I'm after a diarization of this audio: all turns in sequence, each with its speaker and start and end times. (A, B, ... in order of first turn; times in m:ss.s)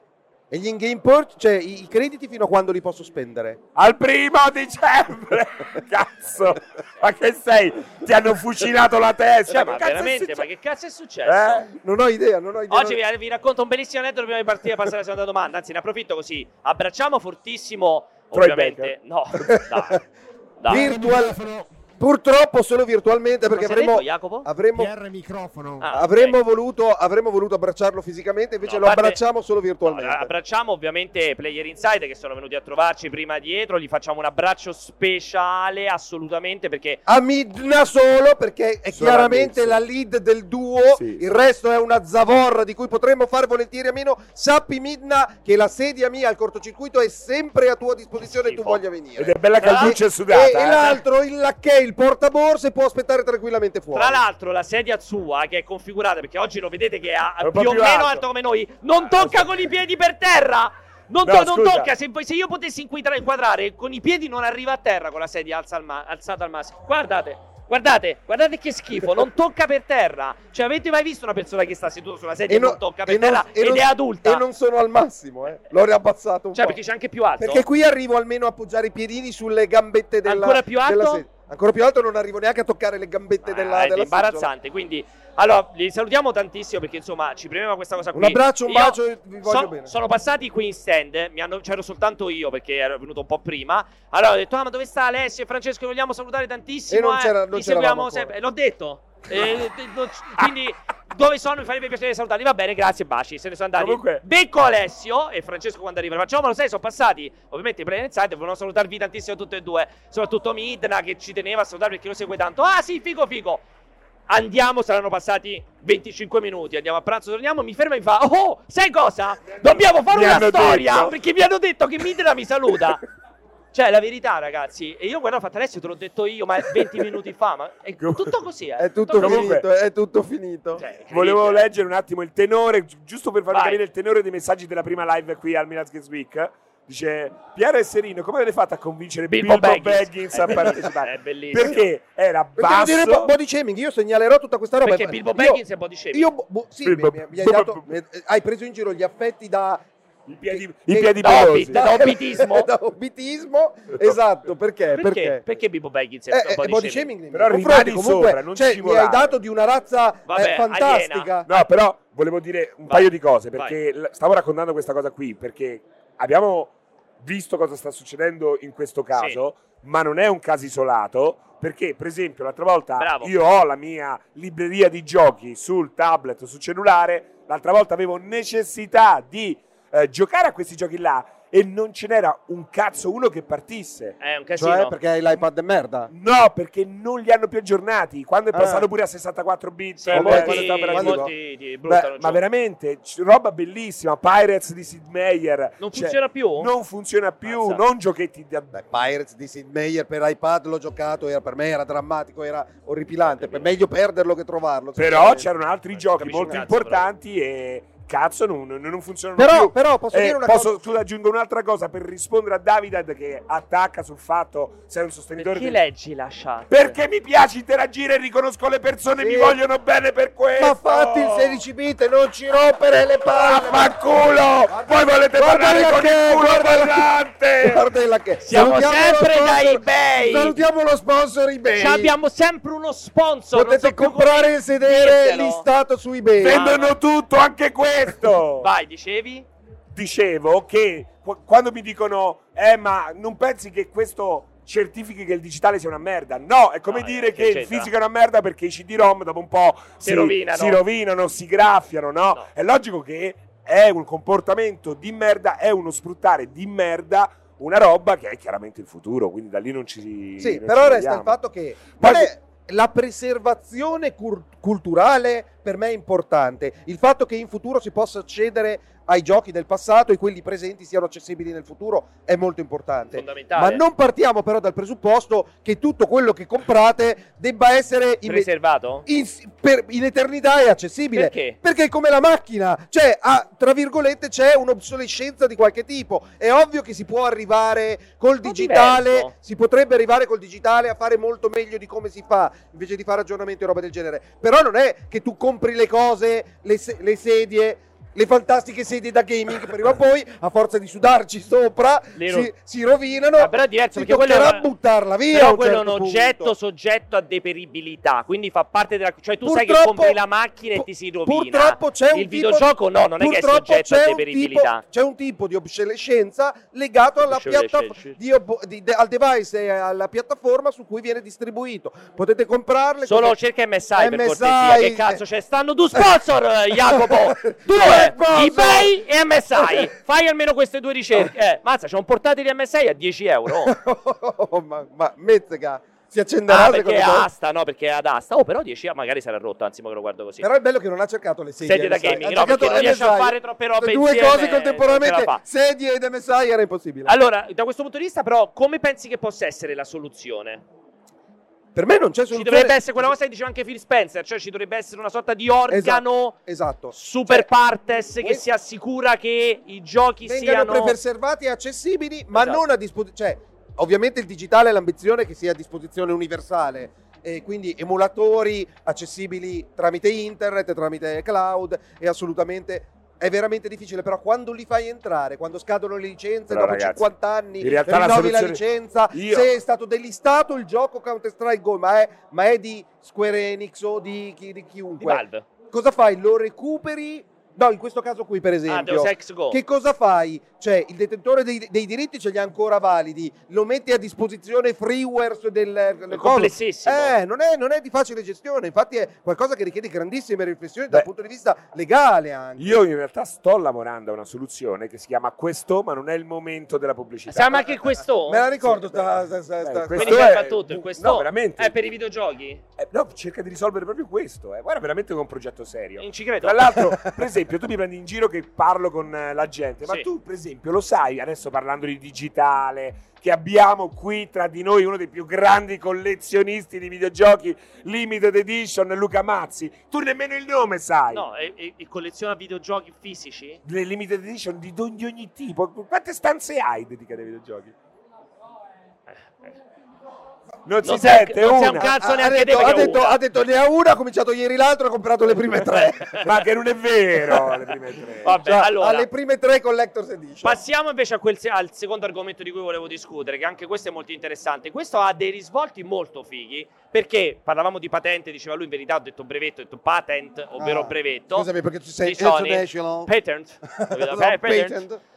0:00.5-0:03.6 A
0:03.8-0:10.5 B
0:09.5-0:11.7 C
0:11.2-0:11.7 B
0:11.8-0:13.0 A
0:12.7-0:20.0 C
0:18.3-0:18.9 B
0:19.5-0:20.0 A
0:20.6-0:20.9 C
0:20.7-0:25.0 A
0:20.7-0:21.7 B
0:23.6-0:24.5 C
0:24.8-0:25.9 B
0:25.8-0:26.4 C
0:25.8-0:30.3 A
0:28.6-0:29.2 C
0:29.8-0:37.0 C
0:37.1-0:54.2 A
0:38.9-0:39.8 B
0:41.0-0:41.2 B
0:48.3-0:48.8 C
0:49.2-0:51.0 B
0:49.6-0:50.0 C
0:53.9-1:14.4 C
0:57.4-0:58.2 B
0:59.1-0:59.5 B
1:01.2-1:01.9 B
1:12.5-1:16.8 A
1:16.5-1:17.7 C
1:17.4-1:24.5 A
1:20.2-1:21.2 C
1:23.4-1:53.6 C
1:28.1-1:29.9 A
1:36.9-1:38.3 A
1:43.8-1:44.2 B
1:54.3-2:03.0 C
1:59.6-2:01.2 B
2:03.7-2:09.6 C
2:08.0-2:08.4 B
2:08.8-2:10.8 A
2:09.2-2:09.7 B
2:10.8-2:11.7 C
2:11.1-2:23.3 B
2:13.5-2:13.8 C
2:19.3-2:21.9 C
2:22.6-2:25.6 A
2:24.8-2:26.3 C
2:26.1-2:29.9 A
2:26.8-2:27.8 B
2:30.3-2:31.8 B
2:30.5-2:35.4 A
2:31.2-2:32.7 C
2:34.9-2:37.1 C
2:36.3-2:41.5 A
2:37.3-2:39.4 B
2:40.3-2:41.3 C
2:41.5-3:04.2 B
2:42.9-2:43.8 C
2:53.0-2:53.3 C
3:04.2-3:05.0 C
3:04.6-3:06.1 A
3:06.1-3:11.3 B
3:08.5-3:08.9 A
3:10.0-3:12.4 C
3:10.1-3:11.3 A
3:11.9-3:18.7 B
3:15.8-3:16.7 C
3:17.4-3:17.8 C
3:18.7-3:25.5 A
3:25.0-3:35.8 B
3:25.9-3:27.1 C
3:29.4-3:30.8 A
3:35.4-3:37.0 C
3:36.7-3:41.6 B
3:39.2-3:39.6 A
3:40.6-3:44.0 A
3:43.3-3:47.9 B
3:44.6-3:47.1 A
3:47.6-3:52.2 A
3:48.4-3:50.6 C
3:51.8-3:55.6 C
3:53.5-3:56.6 A
3:56.4-3:58.7 B
3:56.5-3:57.0 C
3:58.6-3:59.5 C
3:59.9-4:21.4 B
4:06.9-4:07.9 C
4:10.0-4:10.8 C
4:20.4-4:38.5 A
4:21.9-4:22.3 B
4:33.1-4:33.8 C
4:38.3-4:39.0 C
4:39.0-5:06.5 A
4:41.1-4:41.6 C
4:48.4-4:49.3 C
5:02.2-5:02.5 C
5:03.4-5:04.7 C
5:05.3-5:14.8 C
5:09.4-5:10.2 A
5:10.8-5:23.4 A
5:17.2-5:18.2 C
5:23.0-5:33.8 C
5:24.0-5:25.2 A
5:26.7-5:28.9 A
5:29.6-5:29.9 A
5:33.5-5:37.3 A
5:36.5-5:40.4 C
5:40.4-5:47.1 A
5:41.6-5:45.4 C
5:47.0-5:50.6 C
5:51.8-5:53.1 A
5:52.3-5:56.4 C
5:55.7-5:57.5 A
5:56.9-6:01.0 C
6:00.2-6:42.8 A
6:02.3-6:02.6 C
6:16.5-6:19.5 B
6:25.0-6:25.4 C
6:28.7-6:29.6 C
6:36.1-6:37.1 C
6:42.6-6:47.8 B
6:47.3-6:48.5 C
6:48.2-6:50.4 A
6:48.6-6:51.8 B
6:50.0-6:52.6 C
6:52.8-7:11.2 B
6:56.0-6:56.7 C
6:56.8-6:57.1 A
7:11.1-7:13.6 C
7:13.6-7:17.8 B
7:20.7-7:21.9 B
7:20.8-7:23.2 C
7:21.8-7:26.3 A
7:22.6-7:22.9 B
7:26.2-7:28.4 B
7:28.2-7:29.1 C
7:28.3-7:30.6 A
7:30.4-7:41.5 C
7:40.6-7:43.1 A
7:42.0-7:44.8 C
7:43.6-7:45.0 A